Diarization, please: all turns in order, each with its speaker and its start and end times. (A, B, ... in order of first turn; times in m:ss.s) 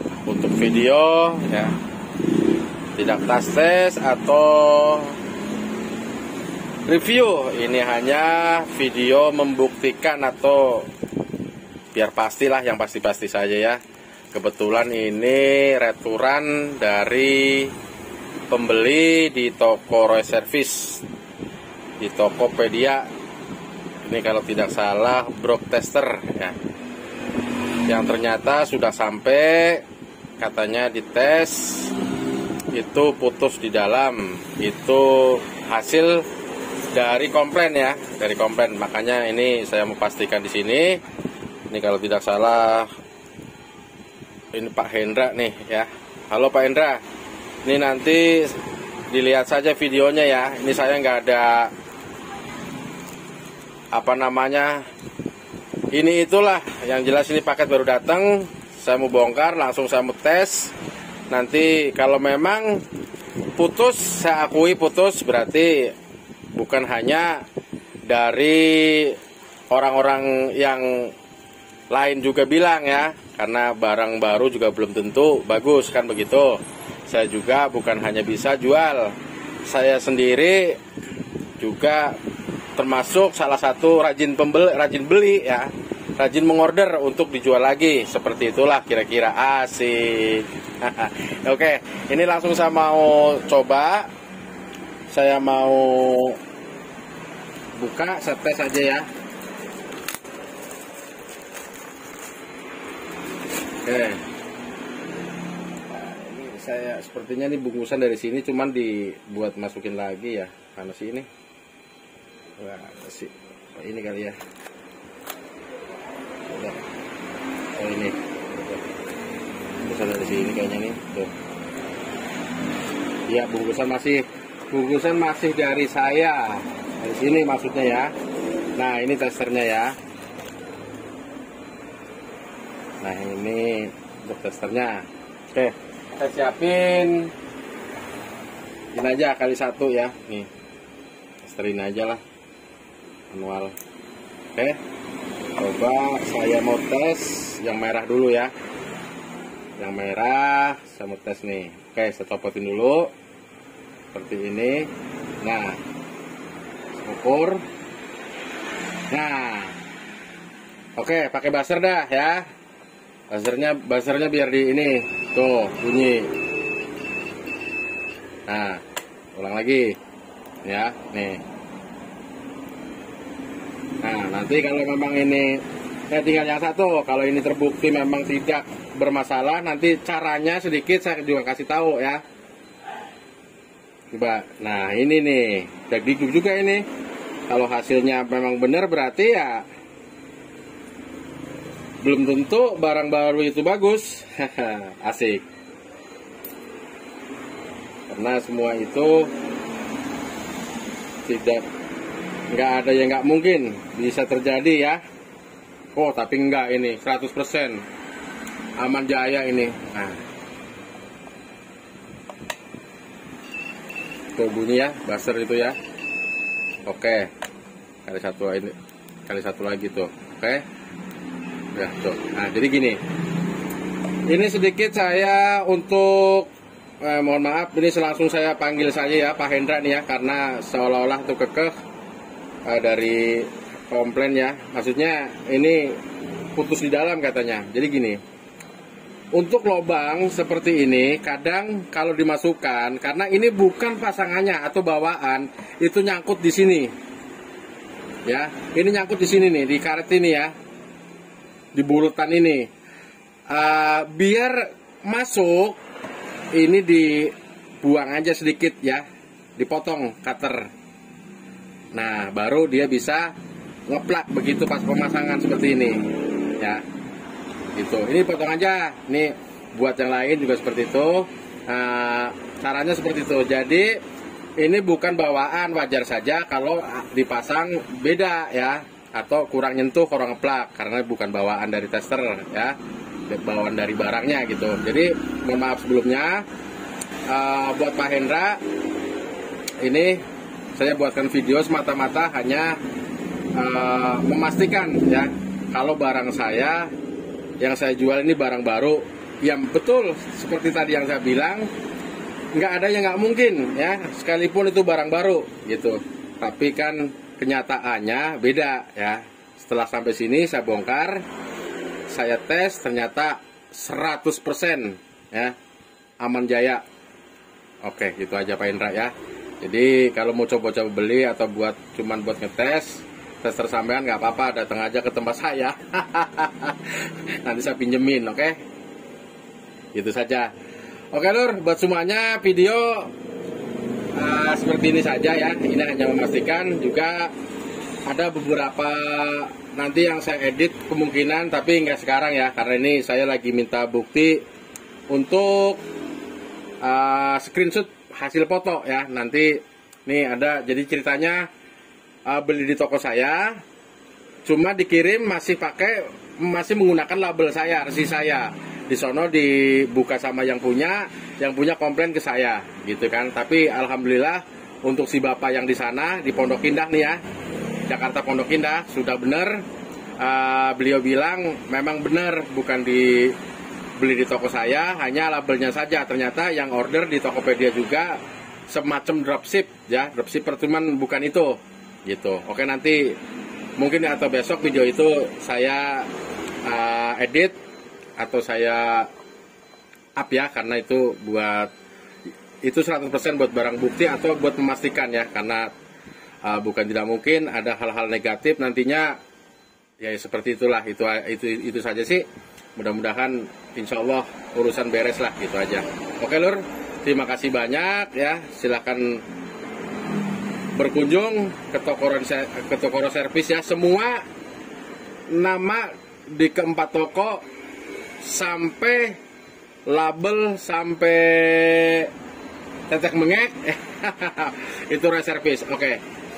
0:00.3-0:01.8 A
0:03.0-0:05.2 A
0:06.8-0:10.9 A
0:11.9-0:13.8 A
0:14.3-0:17.8 A
0:18.5-0:21.0 A
0:22.0-0:23.1 A
0:24.0-0:26.6 A
0:27.9-0:29.8 A
0:30.4-0:32.0 A
0:32.7-0:36.3 A
0:36.9-0:41.0 A
0:41.7-0:42.9 A
0:44.5-0:47.0 A
0:47.6-0:48.6 A
0:49.1-0:51.7 A
0:53.9-0:54.8 A
0:55.9-1:00.7 A
1:01.3-1:02.8 A
1:03.6-1:05.9 A
1:06.5-1:07.4 A
1:08.1-1:09.2 A
1:09.7-1:11.1 A
1:11.9-1:20.8 A
1:21.6-1:22.2 A
1:22.8-1:34.1 A
1:35.1-1:36.4 A
1:37.8-1:39.1 A
1:43.8-1:44.2 A
1:45.9-1:51.3 A
1:52.6-1:54.4 A
1:56.5-1:56.8 A
1:57.8-1:58.8 A
1:59.8-2:01.3 A
2:03.3-2:08.1 A
2:08.8-2:10.0 A
2:13.0-2:17.3 A
2:18.9-2:20.5 A
2:21.4-2:22.2 A
2:23.3-2:23.8 A
2:25.6-2:28.5 A
2:29.8-2:33.1 A
2:34.1-2:34.9 A
2:35.4-2:35.8 A
2:37.0-2:37.6 A
2:39.1-2:39.8 A
2:41.0-2:42.5 A
2:43.3-2:46.3 A
2:48.5-2:48.8 A
2:49.4-2:50.0 A
2:50.6-2:51.4 A
2:54.0-3:02.2 A
3:04.1-3:06.8 A
3:07.5-3:09.6 A
3:12.0-3:15.4 A
3:18.1-3:19.3 A
3:21.3-3:21.6 A
3:22.5-3:25.0 A
3:26.0-3:27.8 A
3:28.8-3:30.2 A
3:34.4-3:35.8 A
3:36.9-3:37.3 A
3:38.1-3:38.8 A
3:39.3-3:40.6 A
3:41.8-3:43.0 A
3:44.3-3:51.7 A
3:52.7-3:56.0 A
3:56.6-3:58.2 A
3:59.4-4:06.9 A
4:08.3-4:10.5 A
4:11.8-4:12.7 A
4:13.5-4:15.8 A
4:16.5-4:19.1 A
4:19.6-4:20.7 A
4:22.0-4:23.4 A
4:23.9-4:26.0 A
4:26.6-4:26.8 A
4:27.8-4:34.0 A
4:34.6-4:42.8 A
4:43.3-4:46.4 A
4:47.3-4:48.6 A
4:49.8-4:50.2 A
4:50.8-4:52.8 A
4:53.6-4:56.9 A
4:57.6-5:01.7 A
5:02.6-5:11.2 A
5:12.1-5:15.6 A
5:16.2-5:16.8 A
5:17.8-5:28.6 A
5:29.9-5:30.5 A
5:31.1-5:33.1 A
5:34.2-5:37.3 A
5:38.1-5:44.4 A
5:45.1-5:45.8 A
5:46.8-5:51.5 A
5:52.3-5:53.6 A
5:54.5-6:07.2 A
6:07.9-6:09.6 A
6:10.2-6:13.4 A
6:14.0-6:23.2 A
6:23.8-6:26.1 A
6:26.6-6:27.6 A
6:28.2-6:29.1 A
6:30.2-6:31.7 A
6:32.6-6:35.7 A
6:36.4-6:39.2 A
6:40.0-6:42.2 A
6:42.8-6:49.2 A
6:50.8-6:54.2 A
6:55.3-6:57.4 A
6:58.2-6:59.2 A
6:59.9-7:02.1 A
7:02.9-7:06.0 A